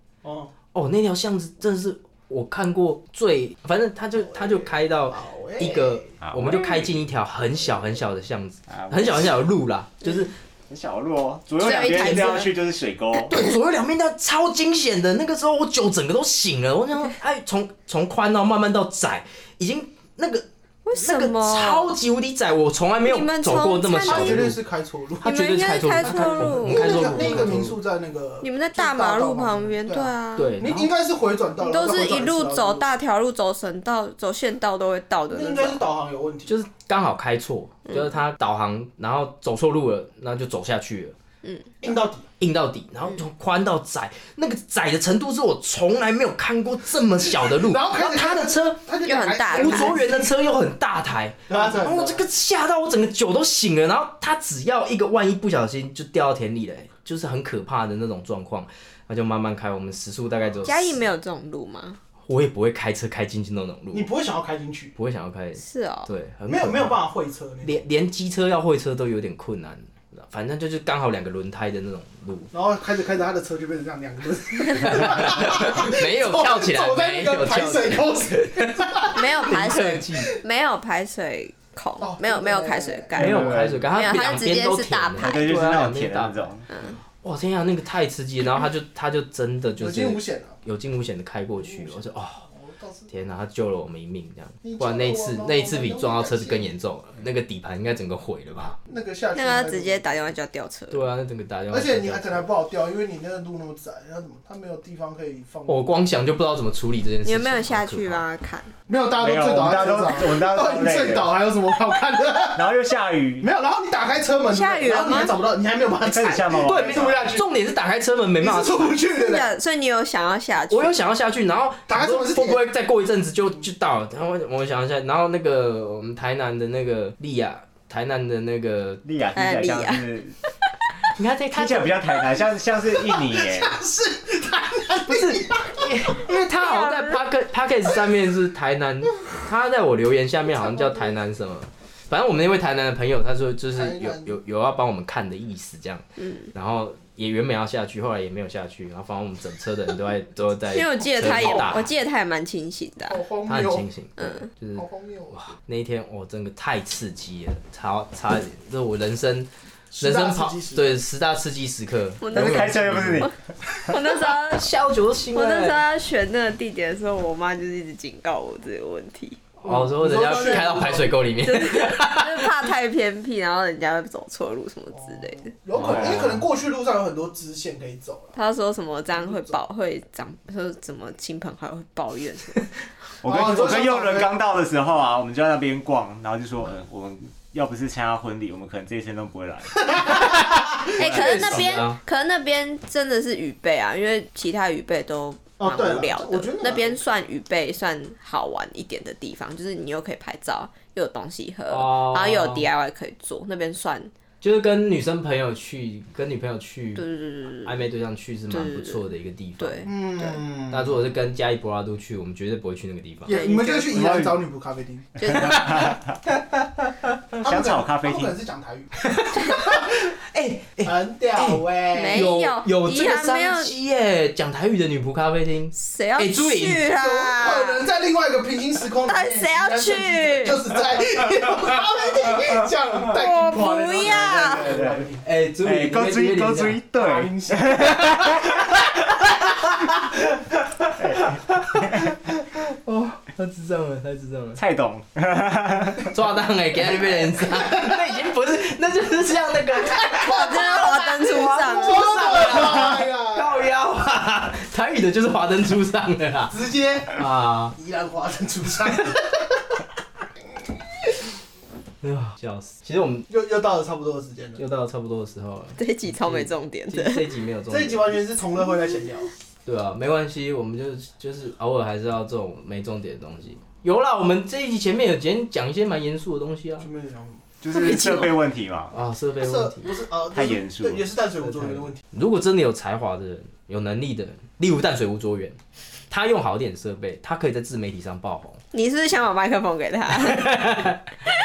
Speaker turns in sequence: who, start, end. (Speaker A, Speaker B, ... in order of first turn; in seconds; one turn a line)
Speaker A: 0.2-0.5
Speaker B: 0.7-10.3
Speaker A: 4.3-6.1
Speaker C: 6.2-6.7
Speaker C: 8.7-9.2
Speaker C: 10.7-13.4
Speaker D: 11.6-12.5
Speaker B: 11.9-12.3
Speaker B: 13.1-24.6
Speaker D: 20.9-21.9
Speaker D: 23.0-24.5
Speaker A: 24.1-25.4
Speaker B: 25.2-27.8
Speaker D: 25.2-27.6
Speaker A: 26.0-32.9
Speaker D: 28.4-30.5
Speaker B: 30.4-30.9
Speaker D: 31.6-35.8
Speaker A: 35.3-36.5
Speaker B: 36.5-41.1
Speaker D: 41.4-41.8
Speaker A: 41.8-42.3
Speaker B: 42.4-48.8
Speaker A: 47.5-50.3
Speaker D: 49.0-50.0
Speaker B: 49.5-61.0
Speaker A: 51.5-52.2
Speaker D: 60.6-62.0
Speaker B: 62.3-64.1
Speaker A: 63.9-64.9
Speaker B: 65.0-67.0
Speaker D: 65.6-66.1
Speaker A: 66.5-67.8
Speaker B: 67.6-72.5
Speaker A: 72.5-79.2
Speaker B: 74.8-80.3
Speaker D: 79.1-85.4
Speaker A: 82.0-83.7
Speaker B: 83.2-86.5
Speaker C: 83.2-83.8
Speaker C: 85.2-86.7
Speaker D: 86.7-87.0
Speaker B: 87.2-92.4
Speaker A: 89.8-90.5
Speaker A: 91.6-93.1
Speaker B: 93.1-98.8
Speaker A: 94.6-96.7
Speaker A: 98.9-100.0
Speaker D: 99.3-101.0
Speaker B: 100.9-102.5
Speaker A: 101.7-105.9
Speaker B: 105.7-108.2
Speaker D: 107.2-108.7
Speaker A: 108.9-112.6
Speaker C: 109.2-111.3
Speaker C: 112.6-113.5
Speaker A: 113.4-117.5
Speaker D: 114.5-115.4
Speaker C: 116.0-117.2
Speaker B: 116.7-119.0
Speaker A: 118.4-119.5
Speaker D: 119.2-121.0
Speaker B: 120.7-129.0
Speaker A: 121.9-122.6
Speaker C: 129.1-130.3
Speaker D: 129.3-130.0
Speaker B: 131.2-132.0
Speaker C: 131.5-133.8
Speaker A: 133.2-135.9
Speaker B: 135.1-151.9
Speaker D: 136.6-137.2
Speaker A: 143.7-144.4
Speaker D: 146.2-146.5
Speaker D: 150.7-153.2
Speaker A: 151.3-151.7
Speaker A: 153.1-153.9
Speaker B: 153.5-163.3
Speaker D: 154.2-154.5
Speaker A: 154.8-155.5
Speaker A: 159.9-160.9
Speaker D: 162.2-162.7
Speaker C: 162.3-163.3
Speaker D: 163.9-164.7
Speaker B: 164.3-165.8
Speaker D: 165.3-169.4
Speaker B: 169.6-172.7
Speaker A: 169.7-171.1
Speaker D: 170.3-170.8
Speaker D: 171.4-175.5
Speaker A: 174.9-178.3
Speaker B: 175.8-176.4
Speaker C: 175.8-176.2
Speaker D: 178.3-182.6
Speaker C: 183.2-190.1
Speaker A: 183.2-184.3
Speaker B: 190.1-192.0
Speaker D: 191.0-204.1
Speaker C: 191.0-191.6
Speaker A: 195.6-197.0
Speaker B: 201.7-202.7
Speaker B: 204.4-207.1
Speaker D: 207.0-207.7
Speaker B: 207.6-209.9
Speaker D: 208.5-209.0
Speaker D: 209.6-210.4
Speaker A: 209.9-211.1
Speaker B: 210.7-213.4
Speaker A: 213.3-215.8
Speaker D: 213.3-214.0
Speaker C: 213.9-214.3
Speaker C: 215.5-215.9
Speaker C: 217.4-218.3
Speaker A: 217.4-220.1
Speaker B: 219.0-226.9
Speaker A: 220.8-222.3
Speaker D: 221.9-223.7
Speaker D: 225.8-227.8
Speaker A: 226.9-235.2
Speaker D: 229.1-230.6
Speaker D: 233.1-234.7
Speaker C: 234.1-235.1
Speaker B: 235.2-236.8
Speaker C: 235.6-238.6
Speaker A: 236.9-238.6
Speaker B: 238.1-238.4
Speaker B: 240.8-244.6
Speaker C: 241.0-242.1
Speaker C: 244.6-246.1
Speaker B: 246.0-256.6
Speaker A: 247.4-248.0
Speaker A: 249.9-253.5
Speaker D: 250.2-252.5
Speaker A: 256.5-257.2
Speaker B: 257.1-257.8
Speaker A: 257.8-259.6
Speaker B: 262.0-263.3
Speaker A: 263.3-264.6
Speaker B: 264.6-268.1
Speaker D: 265.8-267.3
Speaker A: 267.7-269.3
Speaker B: 269.7-276.9
Speaker A: 276.8-277.4
Speaker C: 277.6-278.9
Speaker B: 277.8-278.3
Speaker B: 278.9-279.9
Speaker A: 279.4-282.0
Speaker C: 280.3-281.1
Speaker B: 281.4-285.6
Speaker B: 286.1-288.6
Speaker D: 288.7-290.7
Speaker B: 290.3-291.0